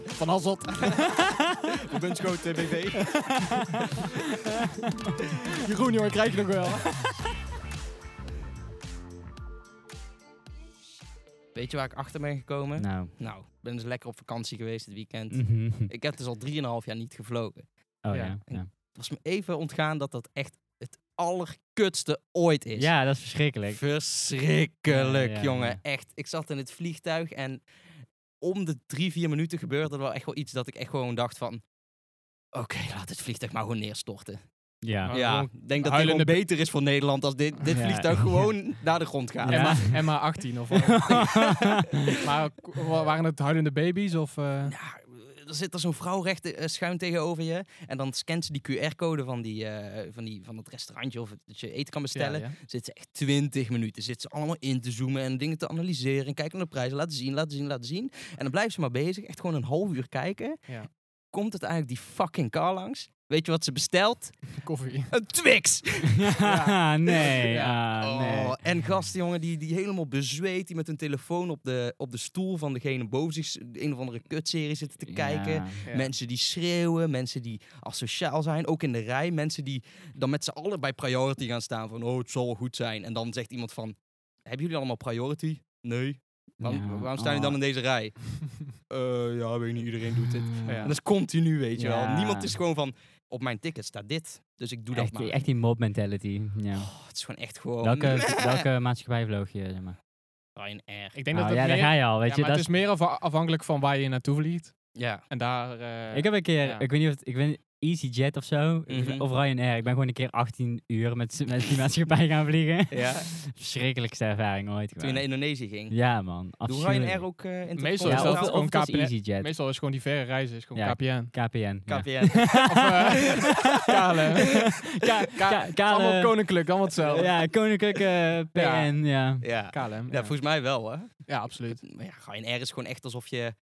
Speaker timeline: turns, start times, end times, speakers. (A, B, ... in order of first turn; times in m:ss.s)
0:00.1-0:01.3 A
0:00.8-0:01.1 B
0:01.8-0:03.6 B
0:03.3-0:03.9 C
0:05.5-0:07.1 A
0:11.5-0:31.6 B
0:12.8-0:13.2 C
0:15.3-0:15.9 C
0:18.0-0:18.7 C
0:18.1-0:18.4 A
0:22.8-0:23.8 C
0:24.9-0:25.8 C
0:32.5-0:34.4 B
0:34.8-0:35.2 C
0:35.0-0:40.0 B
0:35.0-0:36.4 A
0:37.7-0:38.6 C
0:39.4-0:41.5 A
0:39.5-0:42.2 C
0:41.0-0:42.1 B
0:42.0-0:44.7 A
0:44.6-1:06.4 B
0:52.1-0:52.6 A
1:04.6-1:05.2 A
1:06.2-1:08.8 C
1:06.4-1:07.8 A
1:08.0-1:35.5 B
1:15.1-1:15.8 C
1:15.8-1:16.1 A
1:26.6-1:27.6 C
1:30.4-1:31.0 C
1:30.6-1:31.0 A
1:31.8-1:32.6 C
1:34.9-1:37.1 C
1:36.7-1:38.6 B
1:37.8-1:40.0 C
1:40.5-1:41.2 B
1:41.1-1:46.8 A
1:41.3-1:42.7 C
1:44.9-1:45.2 B
1:46.1-1:57.4 C
1:48.9-1:49.2 B
1:52.9-1:53.3 B
1:55.0-1:58.6 B
1:57.7-2:01.4 A
1:58.0-1:59.5 C
2:00.7-2:09.5 C
2:01.8-2:03.6 B
2:02.5-2:07.5 A
2:06.9-2:07.6 B
2:08.5-2:10.4 A
2:09.4-2:13.6 B
2:11.2-2:11.8 A